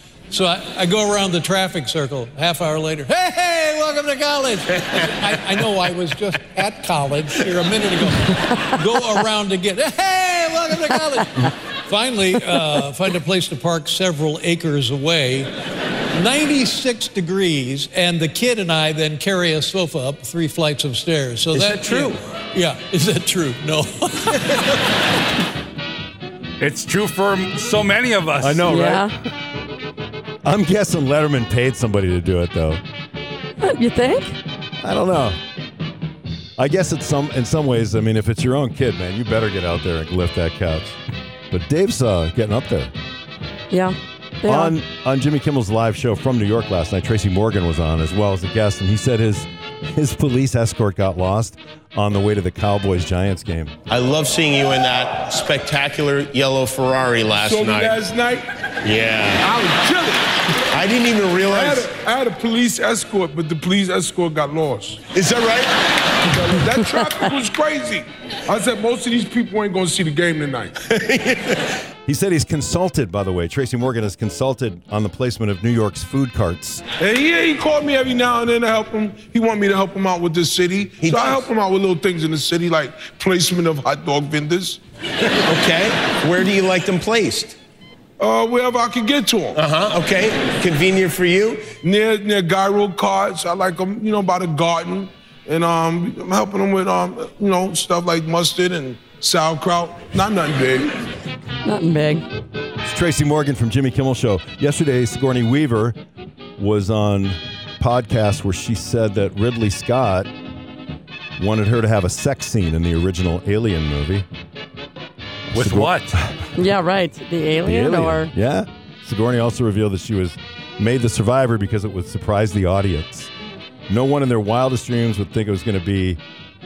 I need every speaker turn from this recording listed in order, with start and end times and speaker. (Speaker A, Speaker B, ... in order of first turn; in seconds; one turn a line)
Speaker A: 0.3-15.5
Speaker A: 16.1-24.8
Speaker B: 26.6-28.6
Speaker C: 28.4-29.1
Speaker D: 28.7-29.1
Speaker C: 30.4-32.8
Speaker D: 33.6-34.4
Speaker C: 34.8-35.4
Speaker C: 36.6-41.0
Speaker C: 41.5-42.9
Speaker D: 43.7-44.8
Speaker C: 44.5-53.7
Speaker E: 53.9-58.0
Speaker F: 57.4-58.5
Speaker E: 58.8-59.8
Speaker F: 59.4-60.3
Speaker E: 60.7-62.0
Speaker F: 61.5-65.0
Speaker E: 65.1-65.7
Speaker F: 66.3-70.7
Speaker E: 71.0-71.5
Speaker C: 72.1-76.8
Speaker F: 77.0-84.8
Speaker E: 81.0-81.5
Speaker E: 85.5-87.6
Speaker F: 88.2-89.6
Speaker E: 89.5-91.8
Speaker F: 91.8-100.9
Speaker D: 101.7-102.2
Speaker C: 102.8-106.0
Speaker C: 106.6-110.3
Speaker C: 111.4-114.3
Speaker C: 115.5-116.1
Speaker B: 115.5-116.1
Speaker D: 116.6-118.3
Speaker C: 117.7-123.3
Speaker C: 123.9-126.2